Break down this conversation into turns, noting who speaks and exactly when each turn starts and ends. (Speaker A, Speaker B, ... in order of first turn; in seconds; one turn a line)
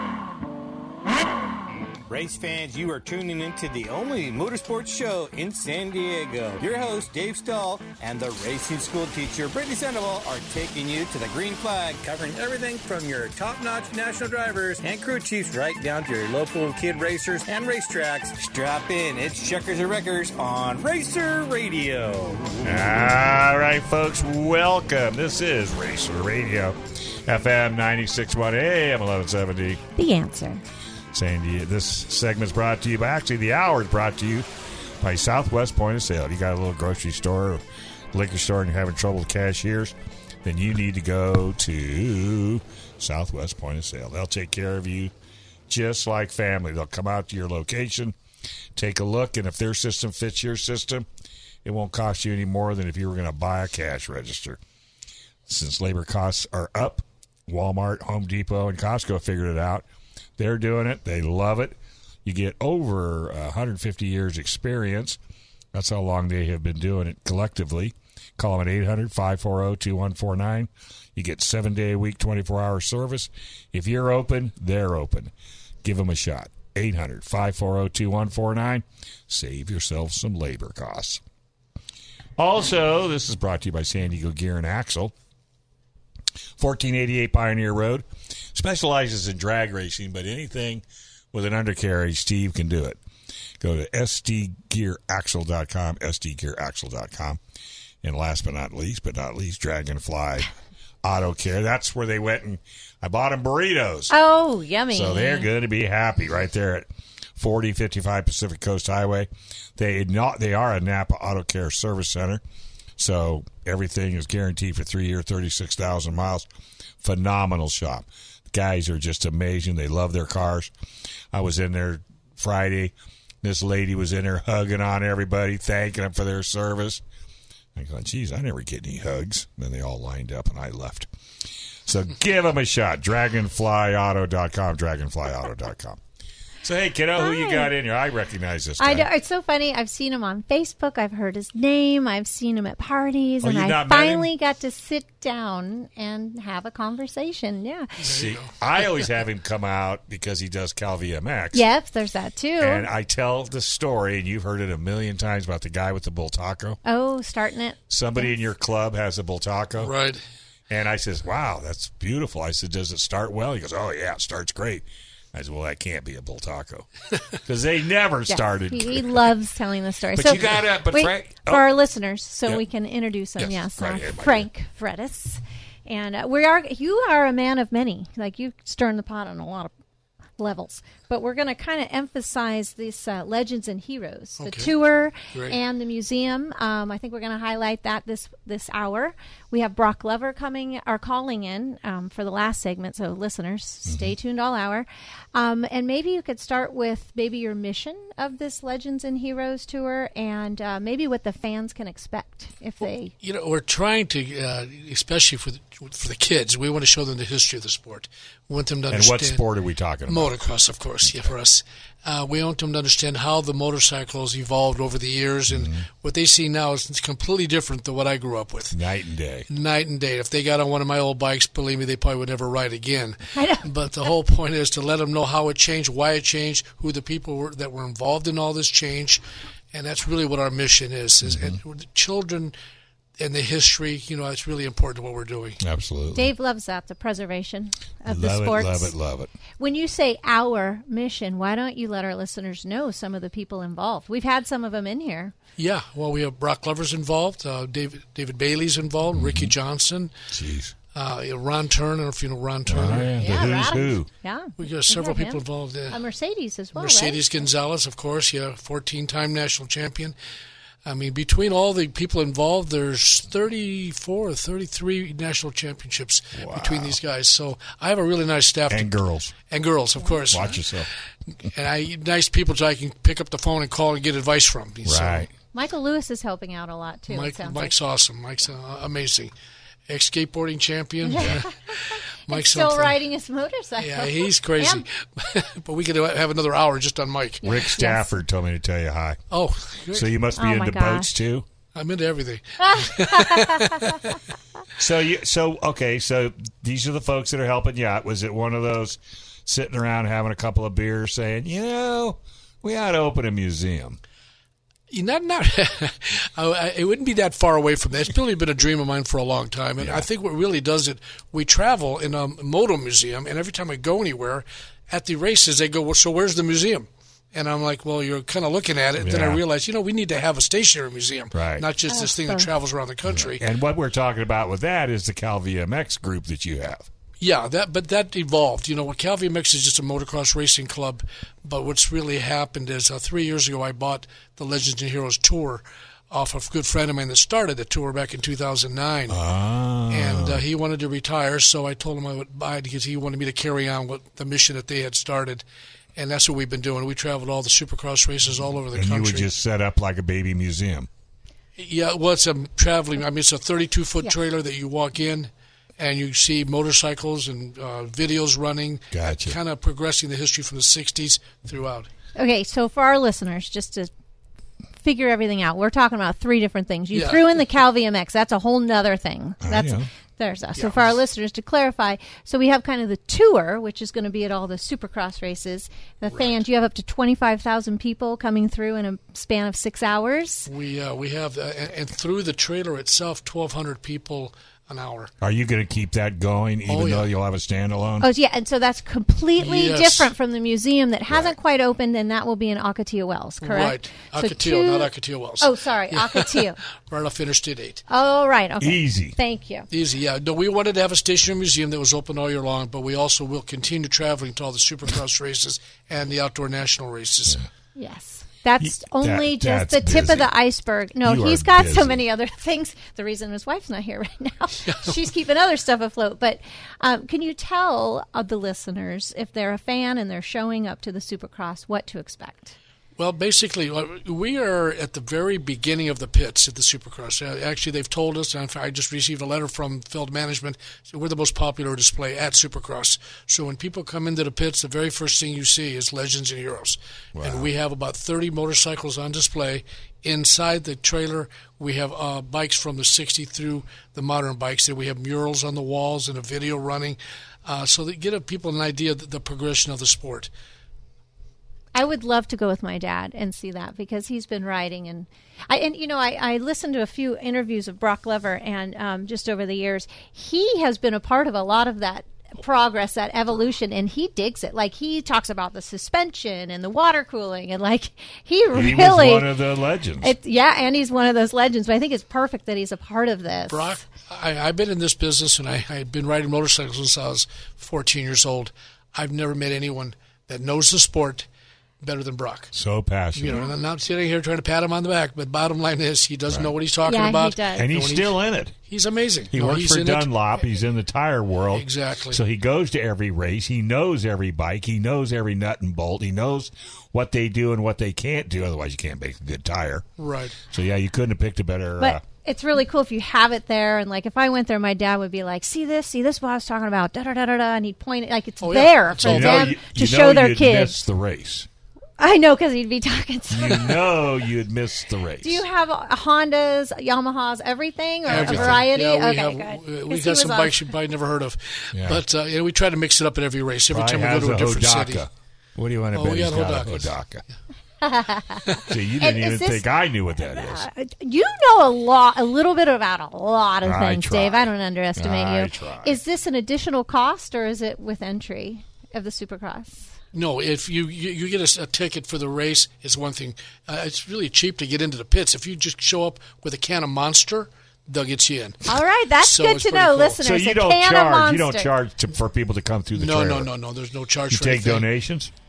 Speaker A: 2.1-22.6
Speaker B: 22.6-29.8
Speaker C: 30.0-30.6
Speaker B: 31.1-34.5
Speaker B: 35.0-45.1
Speaker B: 45.7-48.1
Speaker B: 48.8-51.1
Speaker B: 51.6-54.6
Speaker B: 55.5-59.9
Speaker B: 60.4-65.2
Speaker B: 65.7-75.3
Speaker B: 75.8-81.2
Speaker B: 82.4-85.1
Speaker B: 86.6-93.0
Speaker B: 93.6-97.4
Speaker B: 98.0-100.5
Speaker B: 101.0-104.1
Speaker C: 104.1-105.5
Speaker B: 104.9-112.4
Speaker B: 113.0-116.5
Speaker B: 117.0-120.7
Speaker B: 121.3-127.0
Speaker B: 127.8-131.1
Speaker B: 131.9-136.0
Speaker B: 136.6-139.1
Speaker C: 137.2-137.7
Speaker C: 138.8-148.1
Speaker B: 143.4-144.3
Speaker D: 148.0-148.5
Speaker B: 148.0-151.7
Speaker C: 151.5-152.9
Speaker B: 152.6-156.8
Speaker C: 156.8-158.3
Speaker B: 157.9-159.9
Speaker D: 159.8-160.2
Speaker B: 160.7-166.9
Speaker B: 167.4-169.3
Speaker C: 168.3-179.7
Speaker B: 170.1-171.7
Speaker B: 173.4-174.5
Speaker C: 180.4-203.1
Speaker D: 184.4-184.7
Speaker D: 185.2-185.6
Speaker B: 193.9-194.1
Speaker D: 203.2-209.4
Speaker B: 208.9-210.4
Speaker D: 210.1-218.8
Speaker B: 211.0-211.3
Speaker B: 215.5-215.9
Speaker B: 218.7-219.5
Speaker D: 219.5-229.2
Speaker C: 223.3-223.7
Speaker D: 229.7-232.5
Speaker B: 231.2-231.6
Speaker D: 233.2-235.6
Speaker B: 235.6-236.3
Speaker C: 236.2-238.9
Speaker B: 238.1-239.3
Speaker C: 239.6-245.3
Speaker D: 245.6-250.1
Speaker B: 249.2-249.5
Speaker B: 250.3-250.8
Speaker D: 250.9-253.2
Speaker B: 252.7-254.1
Speaker C: 253.1-257.2
Speaker D: 254.6-256.0
Speaker D: 256.8-260.1
Speaker D: 260.9-270.6
Speaker B: 266.4-267.0
Speaker B: 268.7-269.3
Speaker B: 270.3-270.9
Speaker D: 271.4-275.3
Speaker B: 274.9-275.3
Speaker C: 275.5-277.7
Speaker D: 277.1-279.3
Speaker D: 279.9-283.0
Speaker C: 281.0-284.8
Speaker D: 283.8-287.4
Speaker B: 287.4-289.2
Speaker C: 287.4-288.2
Speaker D: 289.3-290.1
Speaker B: 289.9-291.5
Speaker C: 290.4-291.1
Speaker D: 291.8-294.1
Speaker C: 292.7-293.5
Speaker B: 294.8-304.0
Speaker D: 304.9-323.4
Speaker B: 309.8-310.1
Speaker B: 319.0-319.4
Speaker B: 321.3-321.7
Speaker C: 321.9-322.5
Speaker B: 323.1-326.9
Speaker D: 327.2-339.2
Speaker B: 339.1-340.4
Speaker D: 339.9-345.4
Speaker D: 346.0-349.3
Speaker B: 348.7-350.9
Speaker D: 351.6-361.9
Speaker B: 358.9-359.4
Speaker C: 362.2-363.9
Speaker C: 364.8-380.5
Speaker D: 366.9-367.4
Speaker B: 369.4-369.9
Speaker D: 370.6-370.9
Speaker D: 376.1-376.4
Speaker D: 380.5-385.1
Speaker B: 385.2-388.1
Speaker D: 386.7-387.1
Speaker C: 388.0-396.6
Speaker D: 389.4-390.1
Speaker B: 391.1-391.3
Speaker D: 393.4-397.9
Speaker C: 397.9-399.7
Speaker B: 398.6-399.2
Speaker D: 399.7-407.4
Speaker C: 407.8-422.6
Speaker B: 408.6-410.3
Speaker B: 411.0-412.0
Speaker D: 414.6-415.0
Speaker D: 423.0-450.3
Speaker B: 437.1-437.5
Speaker C: 451.8-469.3
Speaker B: 468.5-470.1
Speaker C: 470.0-473.7
Speaker D: 473.5-481.3
Speaker D: 481.8-482.5
Speaker B: 482.5-483.5
Speaker D: 483.1-490.3
Speaker C: 486.9-487.7
Speaker B: 487.6-488.5
Speaker B: 489.3-499.9
Speaker D: 491.5-492.2
Speaker D: 500.0-500.4
Speaker B: 500.5-502.0
Speaker C: 501.8-510.8
Speaker D: 508.4-509.6
Speaker B: 509.1-511.5
Speaker C: 512.0-513.8
Speaker B: 513.3-515.5
Speaker C: 515.2-520.7
Speaker B: 518.1-518.6
Speaker D: 518.1-525.0
Speaker B: 521.7-522.0
Speaker B: 523.7-527.2
Speaker D: 525.9-526.9
Speaker C: 527.8-529.7
Speaker B: 528.7-530.7
Speaker C: 530.2-539.9
Speaker B: 533.6-536.0
Speaker D: 540.1-550.2
Speaker C: 548.7-551.7
Speaker B: 550.2-553.5
Speaker D: 553.0-554.9
Speaker B: 554.3-555.3